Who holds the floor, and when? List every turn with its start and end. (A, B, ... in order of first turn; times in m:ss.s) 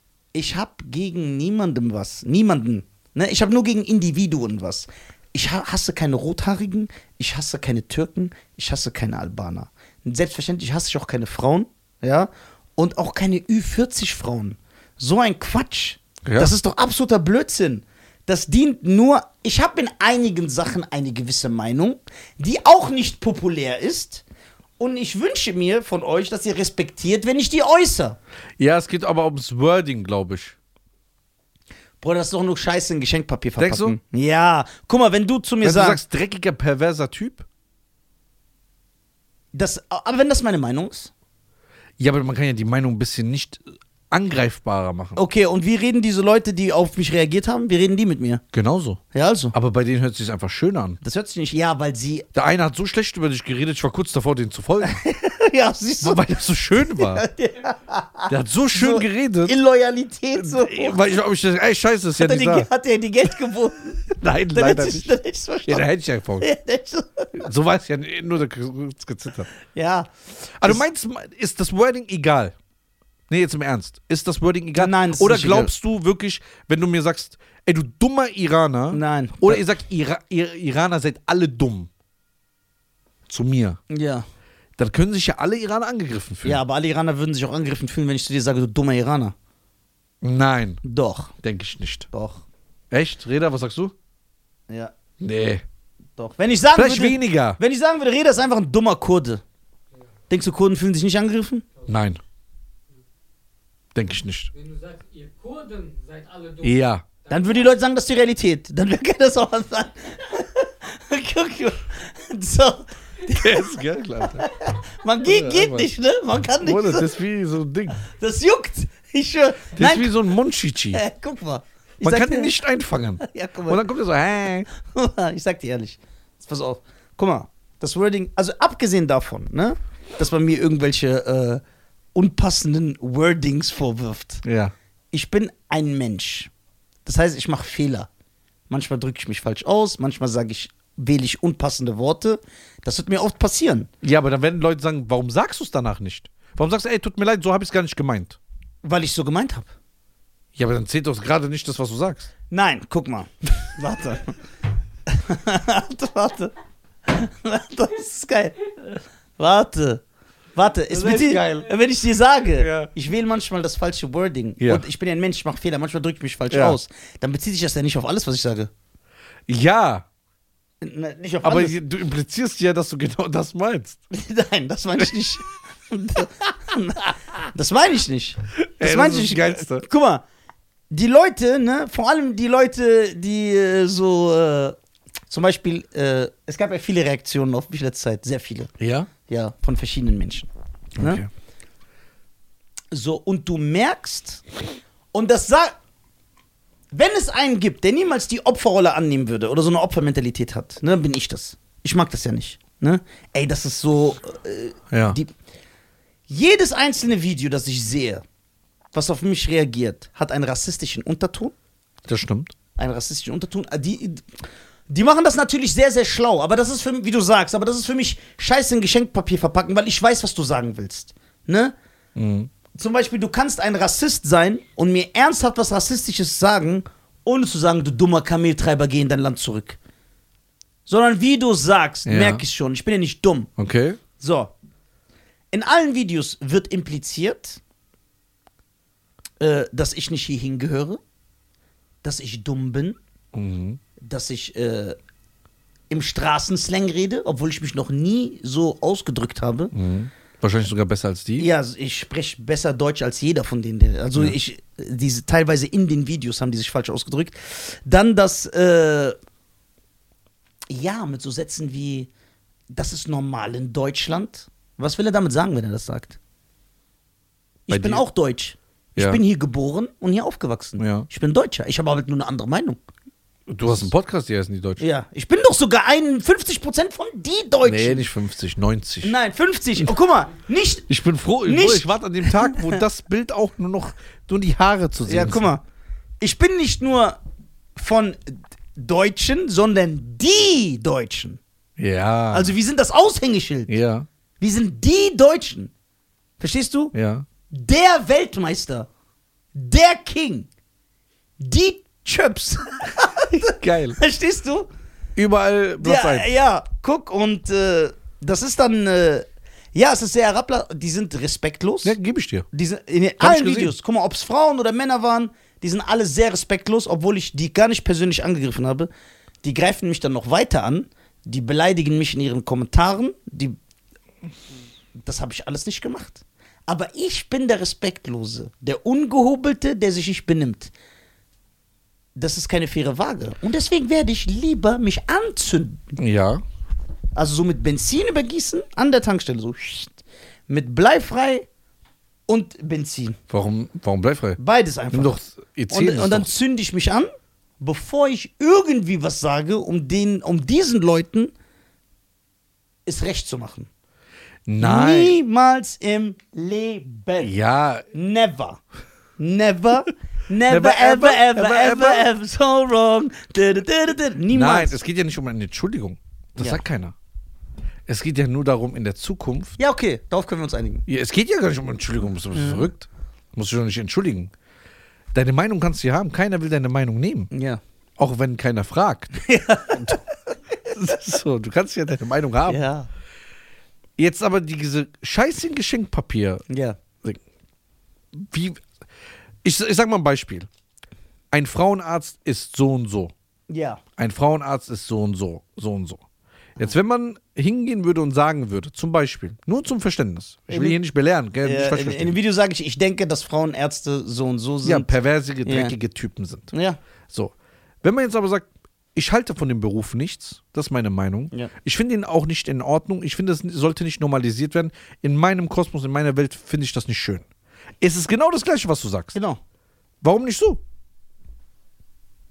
0:00.3-0:24.2 A
0:16.2-0:16.5 B
0:24.8-0:28.2 A
0:28.6-0:30.6 B
0:32.0-0:36.0 A
0:33.6-0:34.0 B
0:35.6-0:37.4 B
0:39.5-0:41.1 A
0:42.0-0:45.2 B
0:45.1-0:48.4 A
0:48.5-0:49.0 B
0:49.1-0:49.5 A
0:49.5-0:51.0 B
0:51.0-0:52.3 A
0:52.3-0:55.0 B
0:54.8-1:01.0 A
0:56.0-0:57.2 B
0:58.3-0:59.6 B
1:00.4-1:02.7 B
1:02.2-1:05.9 A
1:04.1-1:06.5 B
1:06.4-1:07.5 A
1:07.4-1:09.5 B
1:09.7-1:10.1 A
1:10.6-1:12.5 B
1:13.3-1:21.9 B
1:14.8-1:15.7 A
1:18.9-1:19.6 A
1:23.3-1:23.8 B
1:23.9-1:24.2 A
1:24.8-1:26.6 B
1:26.4-1:29.3 A
1:30.2-1:30.8 B
1:30.8-1:31.3 A
1:31.4-1:32.1 B
1:32.1-1:32.4 A
1:32.9-1:33.9 B
1:35.2-1:35.6 B
1:36.2-1:39.4 A
1:36.7-1:37.6 B
1:40.3-1:41.6 A
1:41.9-1:42.2 B
1:43.9-1:44.5 B
1:44.5-1:47.7 C
1:46.6-1:47.0 B
1:47.3-1:57.1 A
1:53.3-1:54.4 B
1:55.2-1:55.9 B
1:56.6-1:58.0 B
1:58.0-2:00.1 A
1:59.7-2:01.0 B
2:00.9-2:02.5 A
2:02.0-2:04.7 B
2:03.2-2:03.8 A
2:04.8-2:11.6 A
2:12.1-2:14.4 A
2:14.4-2:14.7 B
2:15.1-2:16.5 A
2:17.0-2:18.1 A
2:18.7-2:23.9 A
2:24.0-2:28.4 B
2:28.8-2:29.7 A
2:30.5-2:32.3 B
2:32.5-2:34.4 A
2:35.1-2:36.5 A
2:37.1-2:40.0 A
2:40.5-2:48.7 A
2:40.9-2:41.7 B
2:42.6-2:42.9 B
2:46.5-2:46.8 B
2:49.5-2:50.0 B
2:50.8-2:51.8 A
2:51.4-2:54.0 B
2:54.1-3:00.2 A
2:58.6-2:59.8 B
3:00.9-3:04.8 A
3:05.3-3:08.7 A
3:08.8-3:09.1 B
3:09.3-3:11.2 A
3:11.0-3:11.3 B
3:12.9-3:14.4 A
3:15.1-3:15.8 A
3:16.9-3:25.3 A
3:24.9-3:25.2 B
3:26.3-3:28.2 A
3:28.9-3:31.5 A
3:32.1-3:32.5 B
3:32.8-3:34.3 A
3:34.9-3:41.7 A
3:42.2-3:42.5 B
3:42.7-3:49.8 A
3:50.8-3:53.5 A
3:52.0-3:52.4 B
3:53.6-3:54.0 B
3:54.2-3:54.5 A
3:55.5-3:57.6 A
3:59.4-4:01.0 A
4:02.0-4:03.0 A
4:03.3-4:03.8 B
4:04.0-4:05.0 A
4:05.9-4:09.7 A
4:09.7-4:11.5 B
4:11.4-4:19.2 A
4:20.7-4:22.1 A
4:22.7-4:26.2 A
4:27.7-4:32.8 A
4:27.7-4:28.0 B
4:29.0-4:29.2 B
4:30.8-4:31.1 B
4:33.5-4:34.8 B
4:34.8-4:38.1 A
4:37.6-4:39.1 B
4:39.0-4:40.9 A
4:40.9-4:45.5 B
4:41.4-4:42.8 A
4:45.0-4:45.6 A
4:46.2-4:47.2 A
4:47.8-4:51.4 A
4:51.8-4:52.5 B
4:52.3-4:53.7 A
4:53.7-4:54.1 B
4:54.4-4:55.7 A
4:56.4-4:56.9 A
4:56.9-4:57.2 B
4:57.5-4:58.9 A
4:59.5-5:00.5 A
5:01.4-5:04.7 A
5:03.5-5:04.0 B
5:05.2-5:06.3 B
5:05.8-5:12.0 A
5:11.8-5:12.5 B
5:12.5-5:18.9 A
5:13.2-5:13.7 B
5:19.4-5:23.6 A
5:25.0-5:30.7 A
5:32.2-5:35.9 A
5:36.0-5:36.4 B
5:37.2-5:40.0 A
5:40.5-5:41.5 A
5:42.3-5:43.2 A
5:43.3-5:44.4 B
5:44.4-5:51.3 A
5:44.9-5:46.3 B
5:52.8-5:53.7 A
5:54.5-5:55.2 B
5:54.6-5:57.3 A
5:57.2-5:57.8 B
5:57.9-5:58.6 A
5:59.2-6:04.8 A
6:00.5-6:02.1 B
6:04.3-6:06.9 B
6:07.9-6:09.6 B
6:09.6-6:10.8 A
6:10.9-6:14.3 B
6:12.3-6:12.7 A
6:15.1-6:17.3 B
6:17.3-6:17.6 A
6:18.0-6:19.2 B
6:19.2-6:20.0 A
6:19.7-6:20.0 B
6:20.7-6:22.6 B
6:22.5-6:22.9 A
6:24.0-6:26.4 B
6:26.5-6:26.8 A
6:28.1-6:28.6 B
6:29.4-6:30.5 B
6:31.3-6:33.1 B
6:33.5-6:33.8 A
6:34.0-6:36.0 B
6:36.6-6:42.2 B
6:40.5-6:40.8 A
6:41.4-6:44.9 A
6:44.6-6:46.5 B
6:45.4-6:45.7 A
6:46.5-6:46.8 A
6:47.1-6:57.2 B
6:57.8-6:59.2 B
6:59.1-6:59.4 A
7:00.0-7:00.6 B